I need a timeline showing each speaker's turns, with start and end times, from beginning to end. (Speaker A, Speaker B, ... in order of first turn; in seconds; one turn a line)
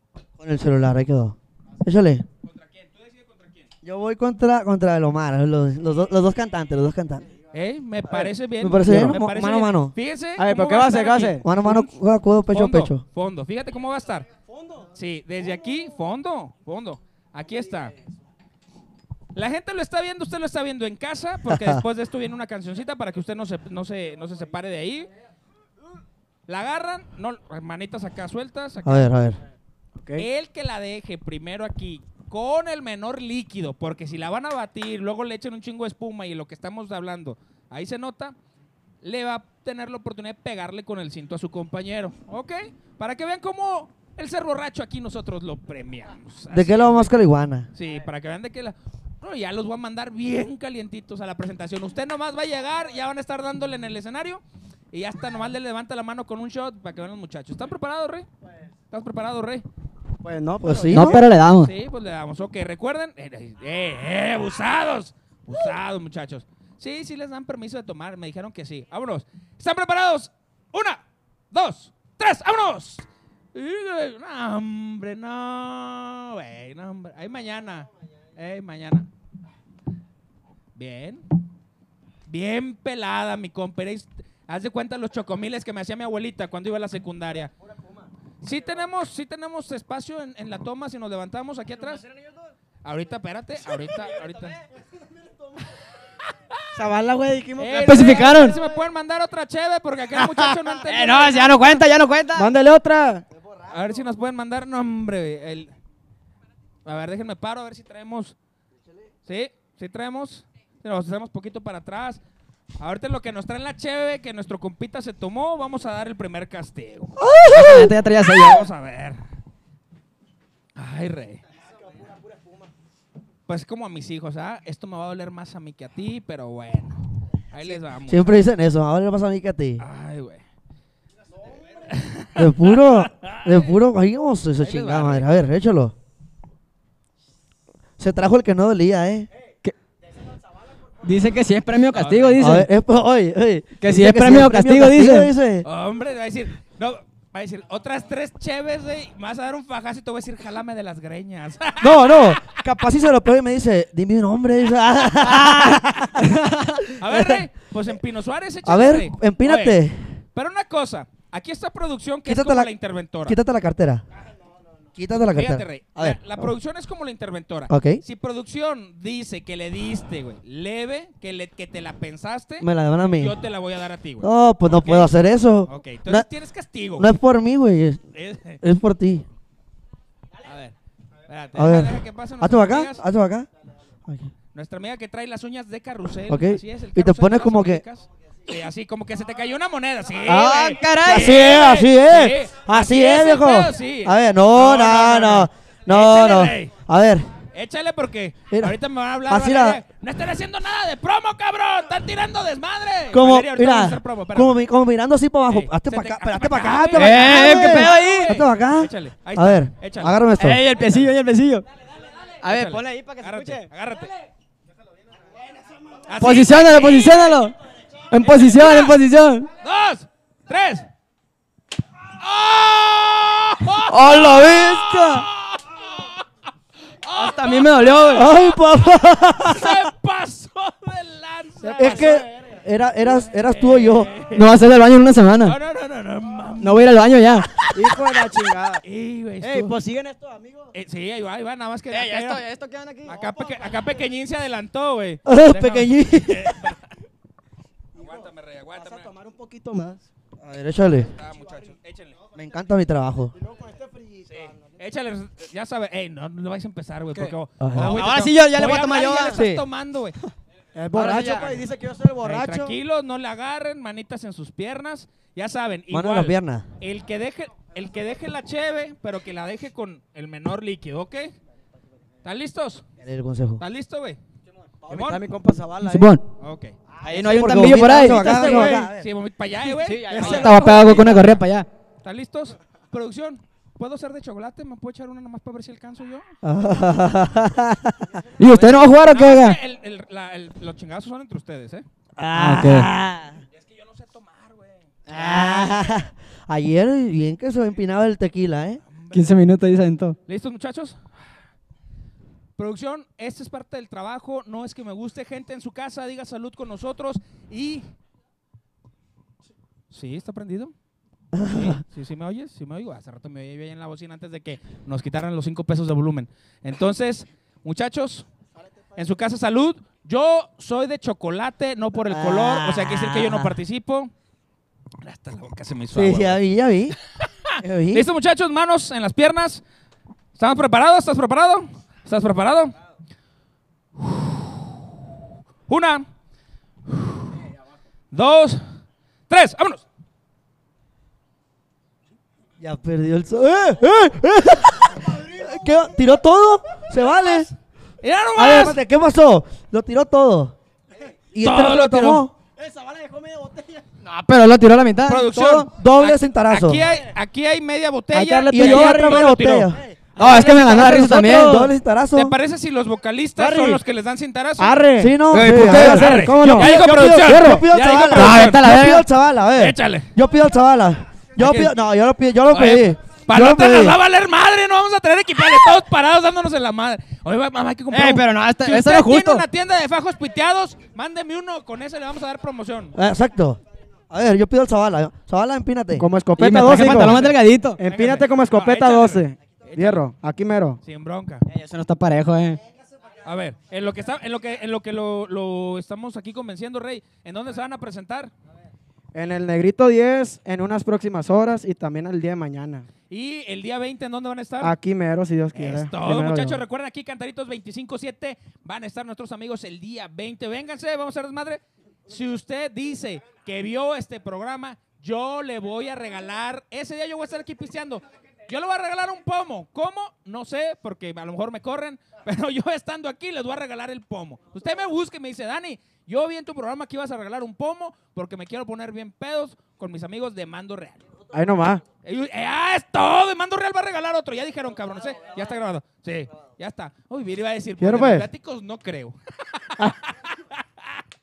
Speaker A: 0.4-2.2
Speaker B: 2.4-3.7
Speaker A: 3.8-7.3
Speaker B: 7.5-11.9
Speaker A: 8.6-9.9
Speaker C: 8.9-9.2
Speaker D: 10.4-11.4
Speaker A: 11.4-13.0
Speaker B: 12.5-14.3
Speaker D: 14.4-14.9
Speaker B: 14.9-17.9
Speaker B: 19.3-25.1
Speaker A: 21.5-21.8
Speaker B: 26.5-29.1
Speaker A: 28.8-29.4
Speaker D: 30.0-30.2
Speaker B: 30.1-38.4
Speaker B: 39.0-47.1
Speaker A: 46.5-47.7
Speaker B: 47.7-58.3
Speaker B: 58.9-59.6
Speaker D: 60.2-61.2
Speaker A: 60.6-61.2
Speaker C: 60.9-61.7
Speaker B: 61.6-79.1
Speaker B: 80.7-81.2
Speaker B: 82.3-87.5
Speaker B: 88.4-92.0
Speaker B: 92.8-94.6
Speaker B: 96.0-96.6
Speaker D: 96.7-98.4
Speaker B: 97.6-101.6
Speaker C: 97.8-98.7
Speaker C: 100.8-102.5
Speaker D: 102.3-103.2
Speaker B: 103.7-105.7
Speaker B: 106.8-108.3
Speaker B: 109.2-112.2
Speaker B: 112.8-117.2
Speaker A: 117.2-117.9
Speaker C: 117.5-118.7
Speaker B: 118.2-119.2
Speaker B: 120.8-121.4
Speaker D: 122.0-122.7
Speaker B: 123.5-128.3
Speaker A: 127.7-129.8
Speaker B: 129.8-130.4
Speaker B: 131.8-133.5
Speaker A: 132.3-135.9
Speaker B: 134.6-135.3
Speaker A: 138.0-139.3
Speaker C: 141.0-142.7
Speaker B: 141.9-142.4
Speaker A: 142.4-145.7
Speaker C: 143.8-145.3
Speaker B: 145.6-152.4
Speaker A: 151.8-157.4
Speaker B: 157.0-159.8
Speaker A: 158.6-160.2
Speaker B: 160.3-163.4
Speaker A: 162.2-162.7
Speaker A: 163.2-164.0
Speaker A: 164.9-166.5
Speaker B: 165.3-175.1
Speaker A: 167.7-168.0
Speaker A: 172.6-173.4
Speaker A: 174.2-176.3
Speaker B: 175.7-177.1
Speaker A: 177.0-179.3
Speaker B: 178.1-178.6
Speaker B: 180.4-180.7
Speaker B: 181.3-183.0
Speaker A: 181.5-183.5
Speaker A: 184.1-184.3
Speaker B: 184.5-196.7
Speaker A: 186.3-187.8
Speaker D: 190.2-191.2
Speaker C: 190.3-191.2
Speaker A: 191.0-197.3
Speaker B: 197.5-204.6
Speaker A: 198.5-199.8
Speaker A: 203.1-210.6
Speaker B: 205.5-211.1
Speaker C: 206.9-208.3
Speaker C: 210.4-211.7
Speaker B: 211.9-214.1
Speaker D: 212.4-213.7
Speaker B: 216.1-217.3
Speaker C: 216.2-217.6
Speaker C: 218.1-219.5
Speaker B: 218.2-218.9
Speaker B: 219.6-220.9
Speaker B: 222.1-226.2
Speaker C: 223.9-225.0
Speaker D: 224.0-225.2
Speaker B: 227.0-228.6
Speaker C: 227.1-228.3
Speaker A: 228.1-229.9
Speaker B: 229.1-232.2
Speaker D: 231.6-232.6
Speaker A: 231.8-234.1
Speaker B: 233.5-234.5
Speaker C: 234.3-235.6
Speaker B: 235.4-236.8
Speaker C: 236.6-237.5
Speaker D: 237.7-238.8
Speaker B: 238.8-239.7
Speaker D: 239.4-240.7
Speaker B: 240.7-242.4
Speaker C: 241.9-243.1
Speaker D: 242.0-243.7
Speaker B: 243.0-246.9
Speaker A: 245.2-246.7
Speaker B: 247.9-249.1
Speaker D: 247.9-248.2
Speaker D: 248.8-250.0
Speaker A: 250.4-251.1
Speaker B: 251.1-252.2
Speaker A: 252.3-253.3
Speaker D: 253.4-254.3
Speaker B: 254.2-260.2
Speaker A: 257.6-258.0
Speaker C: 257.7-259.4
Speaker A: 259.3-259.6
Speaker D: 260.7-262.7
Speaker B: 260.9-261.6
Speaker B: 262.2-271.4
Speaker A: 265.9-266.7
Speaker B: 272.2-272.8
Speaker A: 273.0-273.6
Speaker B: 273.6-274.2
Speaker D: 274.8-276.1
Speaker B: 274.9-275.2
Speaker C: 275.8-276.2
Speaker B: 276.4-276.8
Speaker C: 277.0-278.8
Speaker A: 277.1-279.1
Speaker D: 277.1-278.9
Speaker B: 278.2-281.3
Speaker C: 279.8-281.7
Speaker D: 280.1-280.8
Speaker A: 280.1-280.4
Speaker B: 282.0-286.3
Speaker A: 286.4-288.1
Speaker C: 288.4-289.6
Speaker B: 288.4-291.8
Speaker A: 292.2-293.4
Speaker C: 292.3-292.9
Speaker B: 293.5-295.9
Speaker A: 295.1-298.8
Speaker B: 298.9-299.3
Speaker C: 299.1-300.2
Speaker B: 300.3-301.1
Speaker B: 302.6-307.9
Speaker B: 309.9-310.7
Speaker A: 311.3-311.8
Speaker B: 311.4-318.3
Speaker B: 318.9-324.1
Speaker A: 322.0-323.6
Speaker B: 325.0-326.4
Speaker A: 325.9-327.0
Speaker B: 327.1-329.6
Speaker A: 327.6-328.1
Speaker B: 330.3-332.7
Speaker B: 334.0-334.6
Speaker B: 335.7-336.1
Speaker B: 336.9-337.4
Speaker B: 338.1-339.8
Speaker A: 342.6-347.5
Speaker B: 348.0-348.8
Speaker A: 348.4-350.5
Speaker A: 351.3-352.3
Speaker B: 351.4-352.3
Speaker D: 352.6-353.8
Speaker C: 354.0-355.3
Speaker B: 355.1-359.7
Speaker A: 355.3-356.9
Speaker C: 358.1-359.2
Speaker D: 358.2-359.3
Speaker A: 358.5-362.3
Speaker D: 359.8-361.4
Speaker C: 360.1-361.7
Speaker B: 362.1-364.8
Speaker D: 363.4-363.8
Speaker D: 364.6-367.2
Speaker A: 365.0-374.0
Speaker C: 365.3-369.0
Speaker B: 365.7-368.6
Speaker B: 369.6-370.1
Speaker B: 371.4-371.7
Speaker B: 372.5-382.9
Speaker C: 377.9-379.4
Speaker A: 382.9-386.1
Speaker D: 386.0-387.2
Speaker C: 386.4-387.8
Speaker A: 386.6-387.1
Speaker B: 387.1-387.4
Speaker D: 387.8-390.8
Speaker B: 387.9-390.0
Speaker B: 390.8-391.4
Speaker C: 391.5-392.6
Speaker B: 393.2-398.3
Speaker D: 399.1-402.9
Speaker B: 403.1-404.7
Speaker D: 404.6-406.6
Speaker B: 405.5-431.0
Speaker D: 431.3-431.8
Speaker B: 432.0-441.0
Speaker D: 437.8-438.3